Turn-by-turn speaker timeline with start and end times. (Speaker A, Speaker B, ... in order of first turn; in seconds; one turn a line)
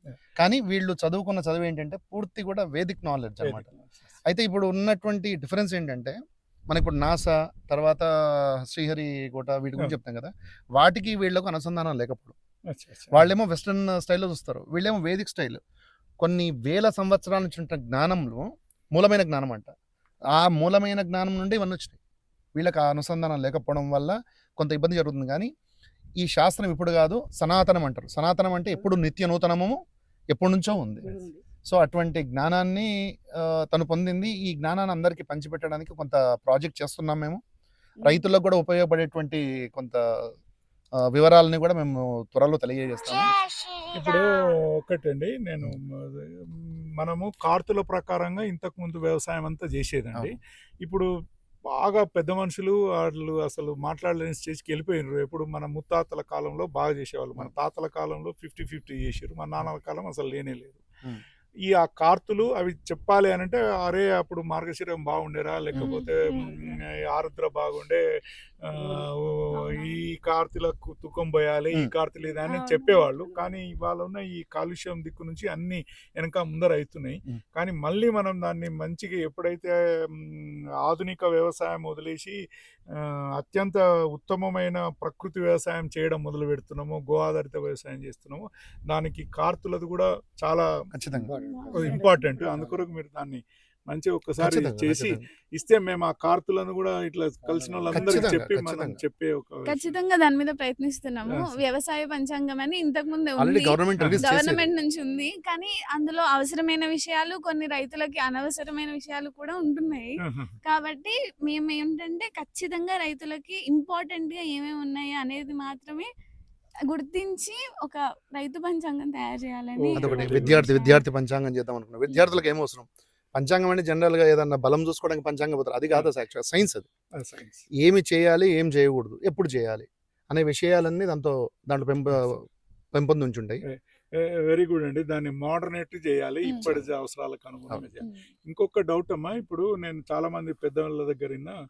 Speaker A: 0.4-3.7
Speaker B: 3.4-3.9
Speaker A: 4.3-6.2
Speaker A: 6.7-12.3
Speaker B: 12.7-13.2
Speaker A: 13.1-15.6
Speaker A: 16.2-19.7
Speaker A: 20.4-22.0
Speaker A: 22.6-25.5
Speaker A: 26.2-29.8
Speaker A: 30.3-37.4
Speaker A: 38.0-40.0
Speaker A: 41.0-43.4
Speaker B: 43.9-51.1
Speaker B: 51.8-60.8
Speaker B: 61.7-68.0
Speaker C: 65.8-66.5
Speaker B: 68.7-82.4
Speaker C: 72.5-73.1
Speaker B: 83.0-90.7
Speaker A: 90.9-91.3
Speaker C: 91.4-91.9
Speaker B: 91.7-100.0
Speaker A: 94.4-95.2
Speaker A: 97.9-99.0
Speaker C: 99.7-116.1
Speaker B: 101.3-101.6
Speaker A: 103.4-104.7
Speaker B: 110.2-110.6
Speaker C: 116.9-121.0
Speaker B: 119.8-120.7
Speaker A: 120.0-126.9
Speaker B: 127.2-127.6
Speaker A: 127.8-132.4
Speaker A: 132.9-133.6
Speaker B: 133.7-141.6
Speaker C: 136.4-136.7